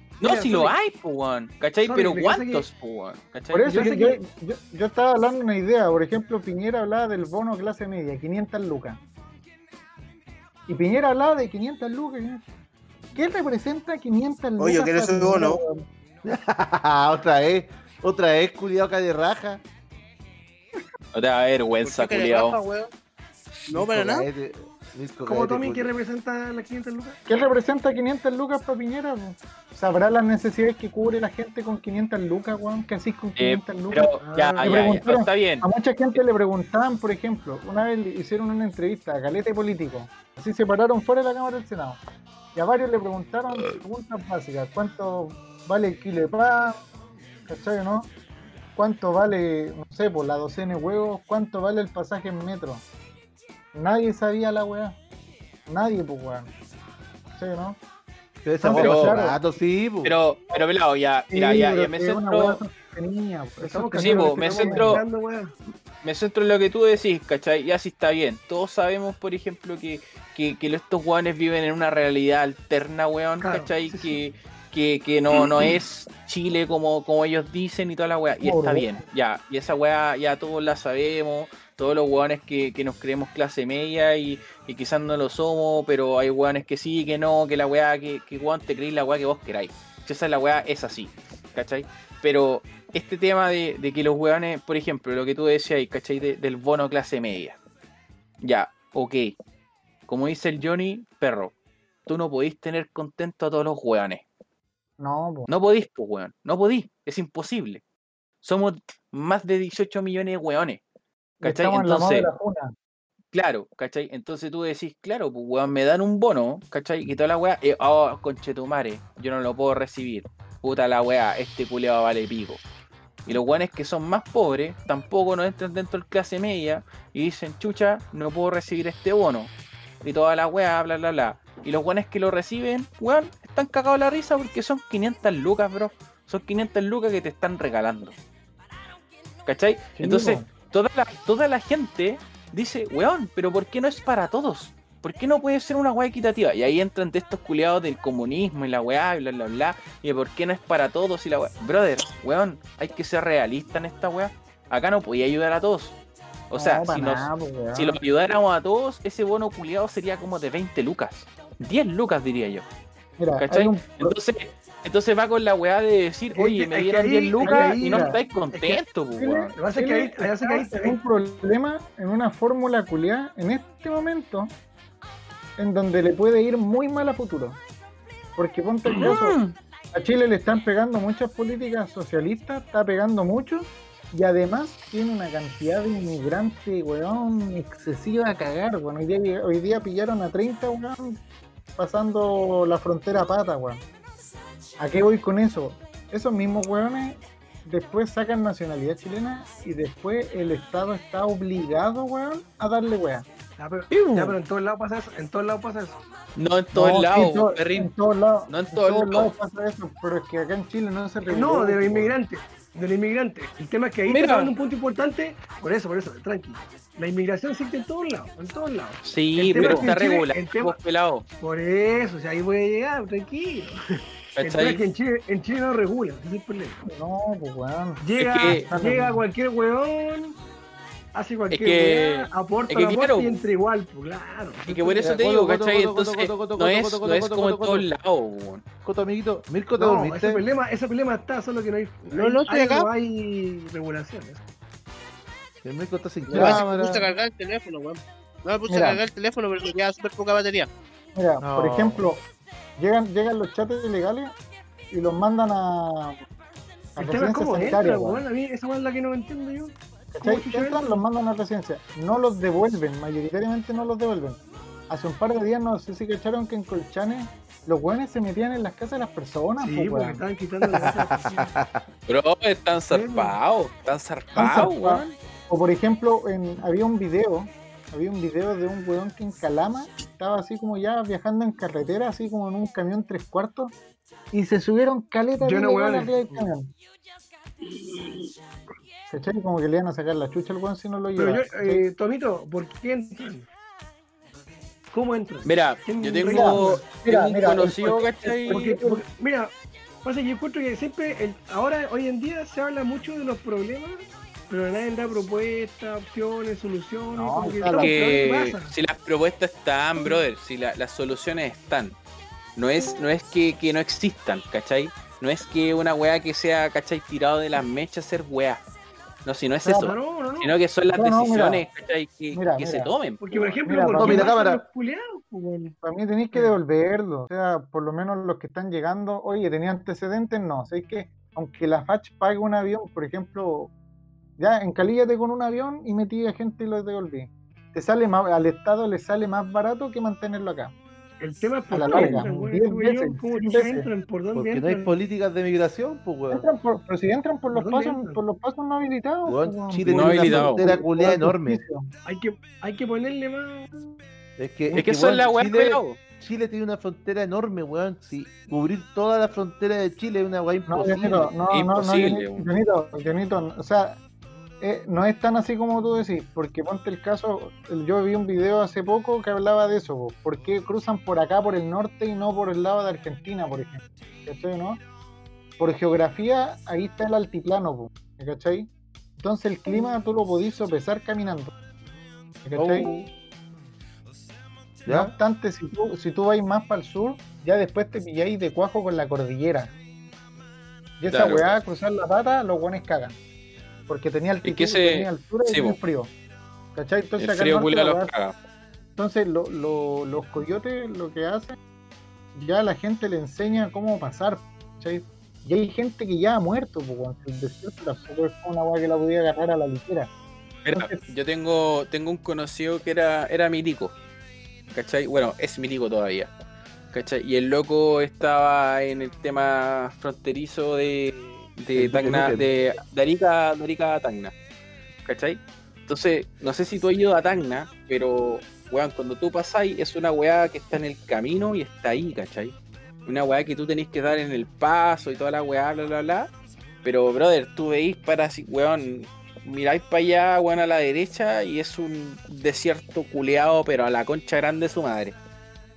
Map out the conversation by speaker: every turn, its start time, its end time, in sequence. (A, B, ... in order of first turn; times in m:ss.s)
0:00.2-0:03.9 A
0:00.2-0:00.7 B
0:01.8-0:02.7 B
0:03.5-0:09.0 C
0:03.7-0:04.2 B
0:10.7-0:12.4 C
0:13.1-0:15.8 C
0:14.6-0:15.6 D
0:16.2-0:19.6 E
0:21.1-0:22.6 A
0:21.8-0:22.9 D
0:23.7-0:24.3 D
0:23.7-0:25.9 E
0:25.2-0:27.2 B
0:27.3-0:42.0 C
0:33.4-0:35.7 A
0:34.2-0:34.9 B
0:42.5-0:46.8 C
0:47.5-0:48.1 C
0:48.8-0:52.8 C
0:53.7-0:55.0 C
0:55.7-0:56.5 C
0:57.4-0:57.8 C
0:58.4-1:00.2 E
0:58.6-0:59.4 C
0:58.7-0:59.2 A
1:00.0-1:02.6 A
1:01.3-1:05.0 C
1:03.6-1:05.5 B
1:03.9-1:05.0 A
1:06.0-1:37.6 A
1:13.4-1:14.2 B
1:18.4-1:19.0 C
1:38.4-1:39.4 A
1:40.1-1:41.5 A
1:42.0-1:44.2 A
1:45.0-1:45.5 C
1:45.5-1:47.8 A
1:48.4-1:50.8 A
1:51.4-1:52.3 A
1:51.4-1:52.7 C
1:53.3-2:02.6 A
2:03.2-2:18.2 A
2:19.4-2:36.0 A
2:20.0-2:20.5 C
2:36.5-2:42.6 A
2:36.5-2:38.0 C
2:43.2-2:44.2 C
2:43.4-2:49.5 A
2:46.3-2:48.8 B
2:47.4-2:48.2 C
2:49.2-2:54.5 C
2:49.5-2:51.0 B
2:55.6-2:57.6 C
2:58.4-2:59.4 C
2:58.9-2:59.5 A
2:59.9-3:11.2 C
3:11.8-3:13.8 C
3:14.8-3:23.3 C
3:23.6-3:26.0 B
3:23.9-3:24.4 A
3:26.4-3:27.9 A
3:26.7-3:32.2 C
3:28.5-3:29.3 A
3:31.3-3:40.8 B
3:34.0-3:34.5 A
3:39.0-3:41.2 A
3:39.5-3:39.9 C
3:41.4-3:43.8 B
3:44.4-3:44.8 A
3:44.4-3:46.8 B
3:46.8-3:49.2 C
3:48.0-3:50.4 B
3:48.2-3:48.6 A
3:51.1-3:55.1 B
3:51.5-3:53.4 A
3:54.6-3:58.6 A
3:55.0-3:57.9 E
3:58.8-4:00.4 E
3:59.8-4:04.4 B
4:02.1-4:02.9 D
4:05.6-4:07.1 E
4:06.2-4:10.7 D
4:06.3-4:06.7 C
4:08.7-4:09.0 C
4:11.1-4:12.2 C
4:11.4-4:12.1 E
4:12.8-4:14.3 C
4:14.9-4:16.2 C
4:17.0-4:21.0 B
4:17.0-4:18.2 C
4:20.1-4:30.2 C
4:29.6-4:31.5 B
4:30.6-4:31.8 E
4:32.1-4:35.1 A
4:32.9-4:33.4 B
4:34.3-4:43.7 C
4:44.3-4:46.7 C
4:45.4-4:46.5 B
4:49.1-4:51.9 C
4:51.2-4:53.5 B
4:54.9-4:56.9 B
4:55.4-4:58.6 A
4:56.3-4:59.0 C
4:58.4-4:59.5 B
5:00.0-5:08.7 B
5:07.2-5:08.0 C
5:07.7-5:12.0 A
5:12.6-5:18.6 A
5:19.2-5:23.6 A
5:19.6-5:19.9 C
5:19.7-5:20.6 B
5:20.9-5:21.6 C
5:22.3-5:22.9 C
5:23.2-5:25.8 B
5:23.6-5:24.3 C
5:24.0-5:24.6 E
5:25.8-5:33.7 C
5:34.4-5:40.7 C
5:41.2-5:45.0 B
5:41.7-5:43.9 C
5:41.9-5:42.2 A
5:44.3-5:46.5 E
5:46.3-5:51.9 C
5:47.5-5:48.2 B
5:49.2-5:51.6 E
5:49.9-5:50.6 A
5:52.0-5:54.0 B
5:54.4-6:01.3 E
5:54.7-5:56.0 A
6:00.7-6:04.0 C
6:01.5-6:02.4 A
6:04.6-6:14.8 C
6:15.6-6:21.5 C
6:22.4-6:22.9 C
6:24.8-6:25.1 E
6:24.9-6:29.7 C
6:31.0-6:33.2 C
6:31.1-6:31.5 A
6:33.9-6:36.1 C
6:34.4-6:35.8 A
6:36.7-6:38.1 C
6:37.2-6:38.3 A
6:39.0-6:41.6 C
6:42.3-6:50.1 C
6:50.6-6:53.9 A
6:50.7-6:51.0 C
6:54.7-6:56.3 A
6:56.9-7:04.3 A
7:01.7-7:02.5 E
7:05.0-7:12.5 A
7:13.0-7:16.3 A
7:16.8-7:25.2 A